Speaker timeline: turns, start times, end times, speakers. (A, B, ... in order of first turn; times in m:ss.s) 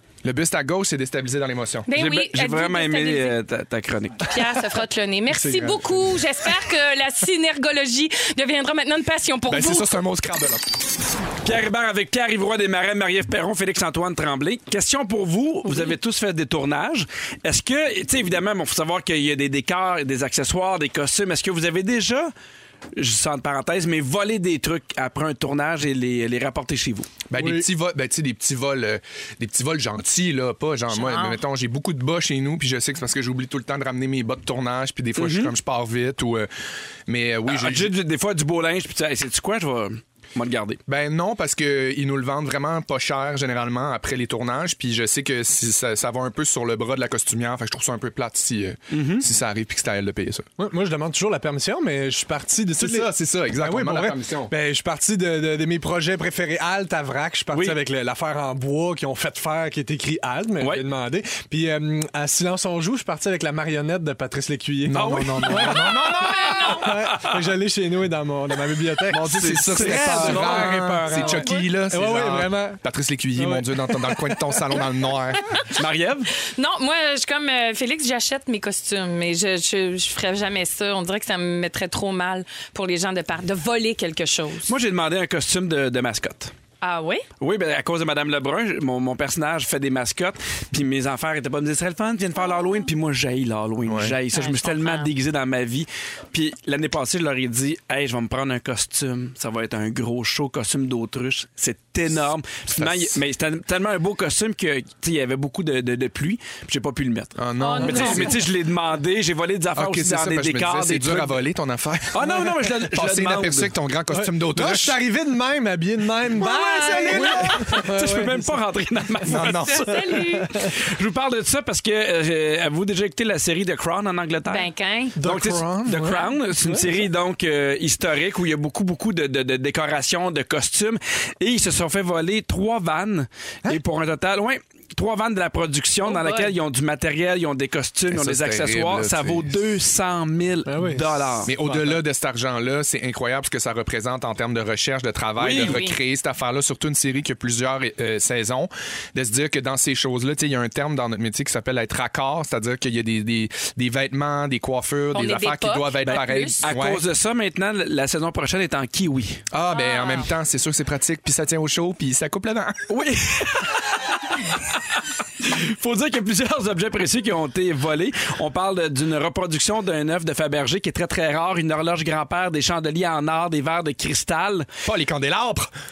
0:00.2-0:01.9 A
0:01.9-0:03.4 B
0:01.9-0:04.4 C
0:04.3-0:10.0 B
0:05.3-0:06.2 D
0:09.5-0:10.6 A
0:11.4-0:22.3 C
0:23.0-0:27.1 C
0:27.3-0:36.5 A
0:27.4-0:27.7 D
0:30.9-0:31.4 B
0:35.2-0:35.5 C
0:37.1-0:37.9 A
0:37.5-0:40.8 C
0:40.9-0:50.5 A
0:48.9-0:49.3 C
0:50.6-1:06.3 D
0:52.8-0:54.5 A
0:57.5-0:57.8 C
1:04.8-1:06.8 A
1:04.9-1:06.3 C
1:06.2-1:06.9 B
1:06.8-1:12.8 D
1:06.8-1:07.4 C
1:09.1-1:15.6 A
1:09.2-1:11.5 C
1:13.3-1:14.4 D
1:15.7-1:16.3 C
1:16.5-1:24.7 B
1:24.7-1:26.5 C
1:26.8-1:27.2 B
1:27.4-1:51.4 C
1:33.9-1:34.2 A
1:34.3-1:35.1 B
1:42.7-1:43.2 A
1:47.4-1:48.3 A
1:47.6-1:48.5 B
1:49.8-1:55.0 A
1:52.1-1:53.7 C
1:54.1-1:58.6 D
1:56.4-1:57.8 B
1:56.9-2:04.7 C
1:59.3-1:59.9 A
1:59.6-2:00.5 B
2:00.1-2:00.7 D
2:04.5-2:05.2 B
2:05.2-2:07.0 D
2:05.2-2:21.5 C
2:16.0-2:16.5 B
2:18.1-2:19.6 A
2:20.7-2:22.0 D
2:21.5-2:37.0 A
2:25.4-2:25.8 C
2:25.5-2:26.0 B
2:35.1-2:36.7 B
2:36.0-2:39.4 C
2:39.5-2:42.8 A
2:39.7-2:40.3 B
2:42.9-2:54.7 C
2:54.8-2:55.7 A